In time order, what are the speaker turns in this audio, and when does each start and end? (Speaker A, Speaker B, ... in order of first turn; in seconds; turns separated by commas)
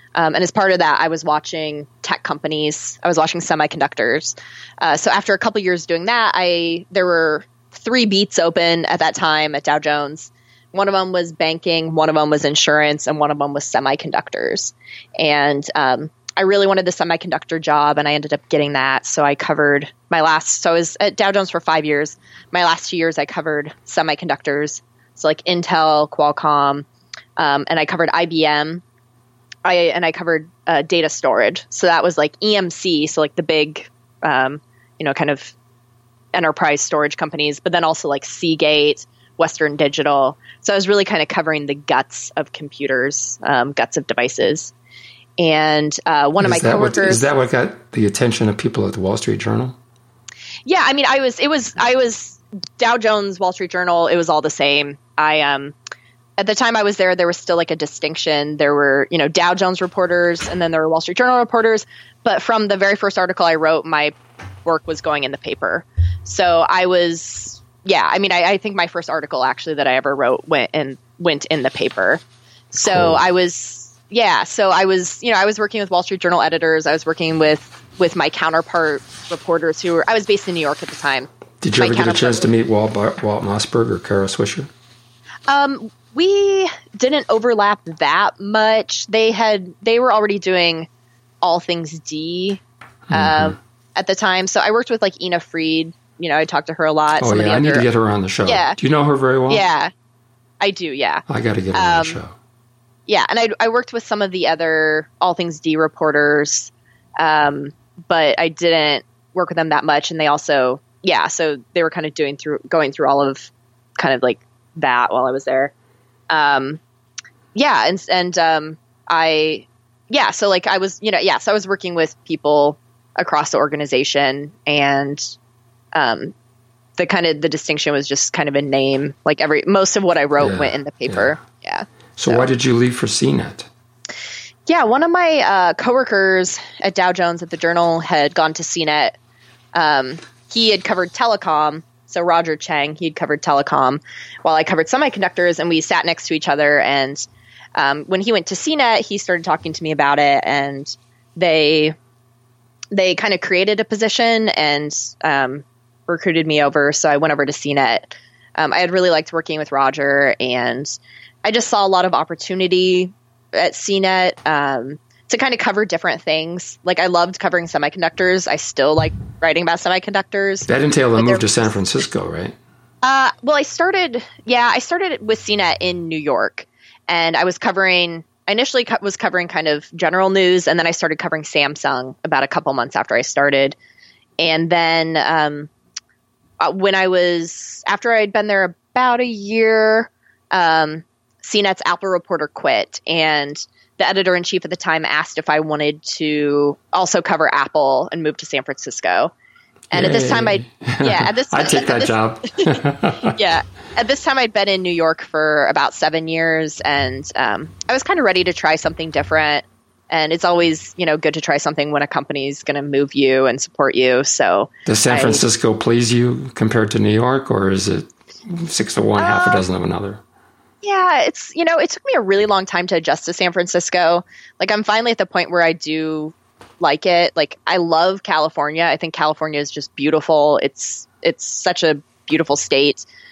Speaker A: 0.2-26.9, Speaker A: 27.4-28.8, Speaker A: 29.6-35.5, Speaker A: 36.3-44.7, Speaker A: 45.4-47.3, Speaker B: 46.4-49.8, Speaker A: 50.6-55.7, Speaker A: 56.4-82.5, Speaker B: 72.8-73.2, Speaker B: 81.6-84.7, Speaker A: 85.5-90.9, Speaker A: 91.4-97.8, Speaker B: 93.1-93.5, Speaker B: 97.2-99.6, Speaker A: 98.5-98.8, Speaker A: 99.5-99.9, Speaker A: 100.6-102.2, Speaker B: 101.3-102.3, Speaker A: 103.1-115.7, Speaker A: 116.3-116.8, Speaker A: 117.5-125.3, Speaker A: 125.9-126.3, Speaker A: 127.0-132.5, Speaker B: 130.4-131.3, Speaker B: 132.2-133.7, Speaker A: 134.7-139.2, Speaker A: 139.7-151.9, Speaker A: 152.9-171.5, Speaker B: 170.7-172.6, Speaker A: 173.0-183.8, Speaker A: 184.4-185.7, Speaker A: 186.6-199.3, Speaker B: 199.9-203.3, Speaker A: 199.9-215.4, Speaker B: 214.9-220.2, Speaker A: 219.2-219.6, Speaker A: 220.8-233.1